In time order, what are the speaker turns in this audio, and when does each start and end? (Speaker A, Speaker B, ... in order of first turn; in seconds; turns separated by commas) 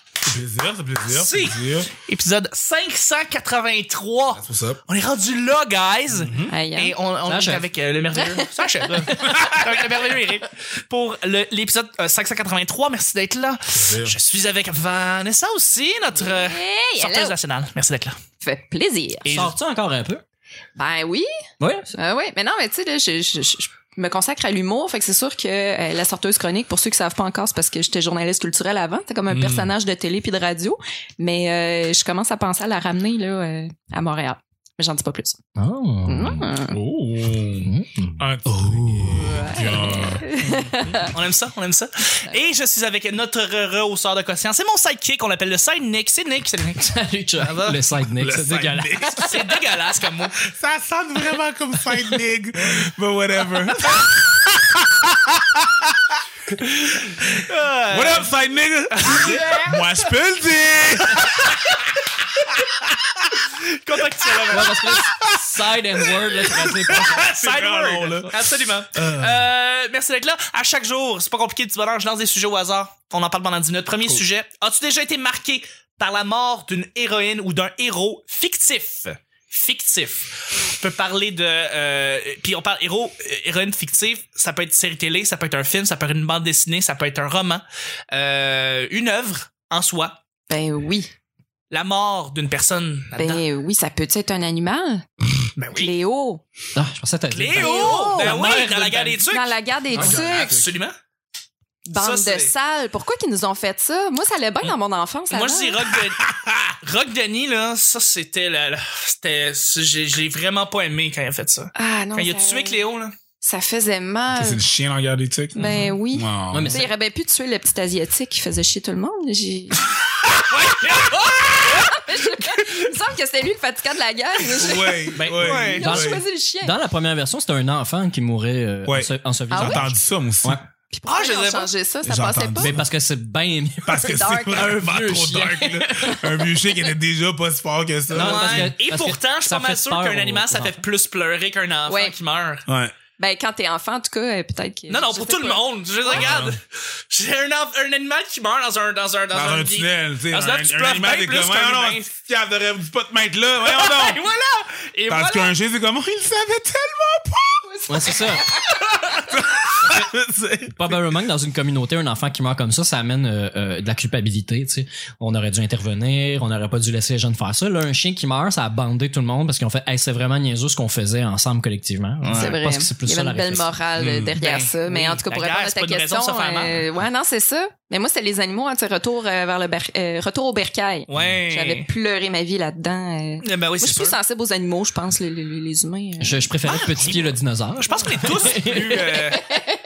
Speaker A: 0.2-1.9, Speaker B: 1.1-18.1, Speaker A: 4.3-4.8, Speaker A: 6.1-6.5, Speaker C: 6.5-6.9, Speaker D: 7.2-7.7, Speaker C: 8.1-9.3, Speaker A: 9.1-9.9, Speaker A: 13.7-14.1, Speaker C: 16.2-17.3, Speaker C: 18.4-19.2, Speaker B: 19.2-19.5, Speaker D: 19.3-20.2, Speaker C: 20.8-21.3, Speaker D: 21.6-21.9, Speaker C: 21.9-35.4, Speaker A: 29.3-29.7, Speaker D: 35.5-36.5, Speaker C: 36.1-36.8, Speaker A: 36.7-40.7, Speaker D: 37.6-39.2, Speaker C: 39.1-41.1, Speaker B: 40.9-47.8, Speaker D: 46.8-49.1, Speaker A: 48.1-49.5, Speaker B: 49.2-50.5, Speaker A: 50.5-57.2, Speaker B: 57.1-58.3, Speaker A: 57.9-61.7, Speaker B: 58.9-59.9, Speaker B: 61.2-61.6, Speaker A: 62.7-63.3, Speaker B: 63.6-65.0, Speaker A: 64.2-65.4, Speaker D: 64.5-67.3, Speaker A: 66.0-69.5, Speaker B: 67.0-90.2, Speaker C: 90.5-91.1, Speaker B: 91.7-93.4, Speaker C: 93.1-95.0, Speaker B: 95.6-95.9, Speaker C: 95.7-96.4, Speaker D: 96.7-99.2, Speaker B: 97.3-100.9, Speaker C: 97.5-98.4, Speaker C: 99.3-100.6, Speaker A: 99.9-100.7, Speaker C: 101.8-105.9, Speaker B: 102.0-102.5, Speaker B: 105.3-106.2, Speaker A: 105.9-106.7, Speaker B: 106.8-113.1, Speaker C: 111.8-112.8, Speaker C: 113.4-114.6, Speaker A: 114.3-116.8, Speaker B: 115.5-115.9, Speaker C: 115.5-119.9, Speaker D: 116.5-116.9, Speaker B: 120.4-122.6, Speaker C: 121.0-126.7, Speaker A: 124.5-126.2, Speaker D: 125.2-130.6, Speaker B: 125.4-126.0, Speaker A: 128.8-130.6, Speaker C: 129.5-129.8, Speaker C: 130.9-132.7, Speaker B: 131.1-131.7, Speaker A: 132.0-132.8, Speaker D: 132.6-136.2, Speaker A: 133.8-138.7, Speaker C: 134.0-134.8, Speaker C: 136.0-136.6, Speaker B: 138.1-142.7, Speaker D: 138.1-140.8, Speaker C: 141.9-142.1, Speaker A: 142.7-142.9, Speaker C: 143.2-146.3, Speaker B: 144.9-152.1, Speaker A: 146.1-146.6, Speaker A: 149.3-154.2, Speaker B: 153.6-155.5, Speaker A: 155.1-157.7, Speaker C: 157.6-159.3, Speaker D: 157.9-158.5, Speaker A: 159.3-161.2, Speaker D: 160.7-173.7, Speaker B: 172.2-172.5, Speaker C: 172.3-186.5, Speaker A: 174.0-174.3, Speaker B: 174.3-176.8, Speaker B: 181.1-181.9, Speaker B: 183.4-184.2, Speaker D: 186.2-189.1, Speaker B: 186.7-189.6, Speaker C: 188.9-189.8